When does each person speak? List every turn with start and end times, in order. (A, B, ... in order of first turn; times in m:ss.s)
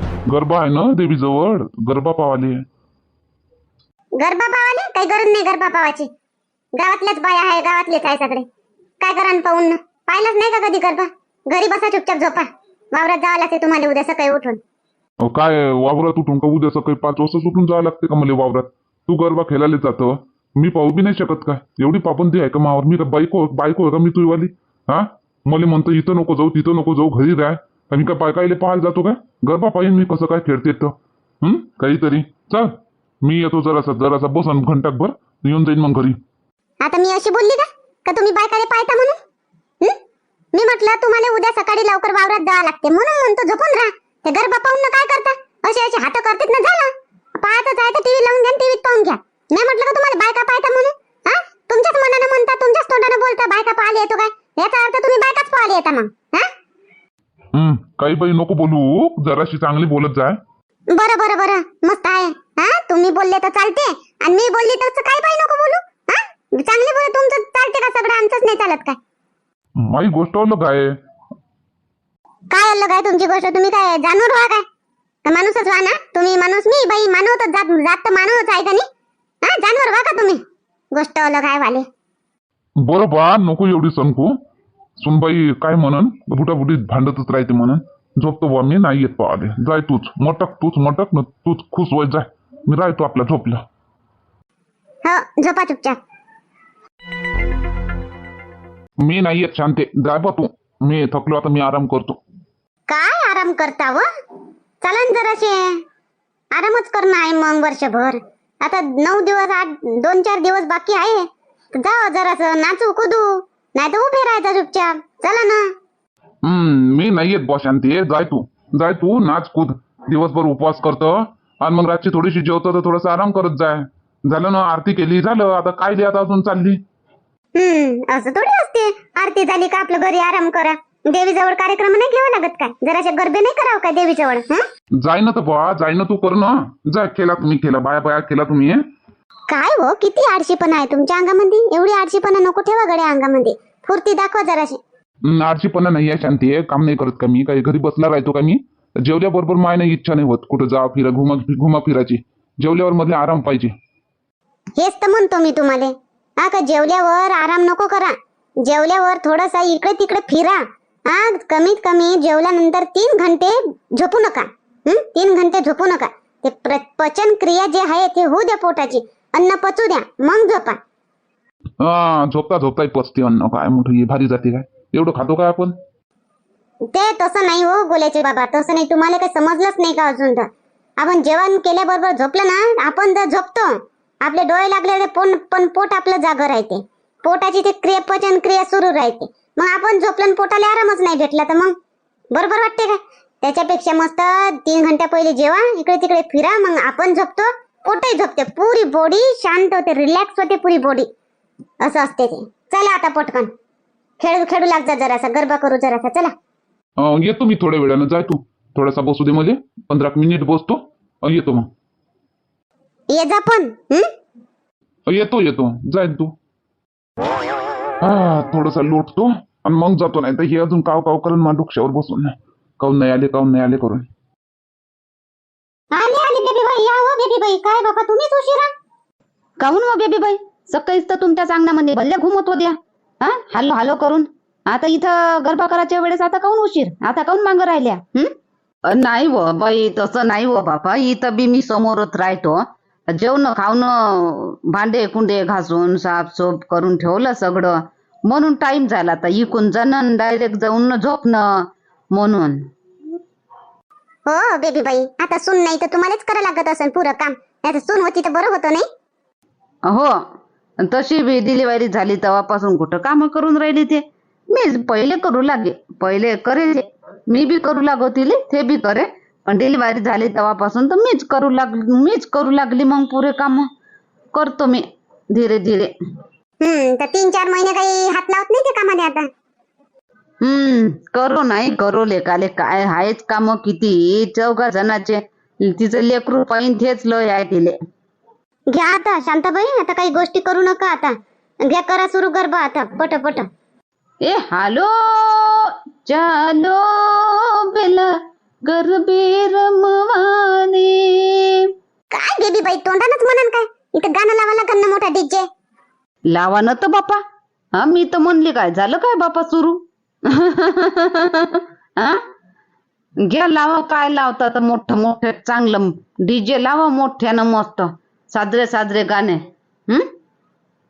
0:00.3-0:02.6 A
0:04.2-0:06.1 B
0:06.8-0:08.5 B
0:09.0-0:14.6 B
0:15.2-0:36.2 A
0:36.8-0:39.2 B
0:40.5-0:56.5 B
0:57.5-1:00.4 A
1:00.9-1:09.0 B
1:09.8-1:11.0 A
1:12.5-1:14.7 B
1:15.2-1:18.9 B
1:19.4-1:20.4 B
1:20.9-1:21.9 B
1:22.8-1:24.4 A
1:25.0-1:33.6 A
1:35.0-1:36.0 B
1:39.0-1:42.2 A
1:42.9-1:44.1 B
1:44.8-1:45.8 B
1:46.5-1:55.7 B
1:56.4-2:06.8 A
2:07.6-2:14.6 B
2:15.0-2:18.8 A
2:19.5-2:24.8 B
2:25.2-2:33.8 A
2:34.8-2:50.8 B
2:51.8-2:55.8 A
2:56.9-3:11.8 B
3:12.3-3:21.1 B
3:21.8-3:23.5 B
3:24.2-3:26.3 B
3:27.0-3:31.7 A
3:33.1-3:34.1 B
3:35.1-3:36.3 A
3:38.0-3:44.0 A
3:45.9-3:48.7 B
3:49.6-3:58.3 C
3:58.9-4:12.7 C
4:14.3-4:18.9 B
4:19.9-4:20.2 C
4:20.8-4:33.7 C
4:34.3-4:35.9 C
4:36.6-4:39.3 B
4:40.4-4:47.8 C
4:48.7-4:53.5 B
4:54.2-5:01.7 C
5:02.1-5:05.5 B
5:06.3-5:07.2 C
5:07.8-5:12.2 C
5:13.2-5:20.1 C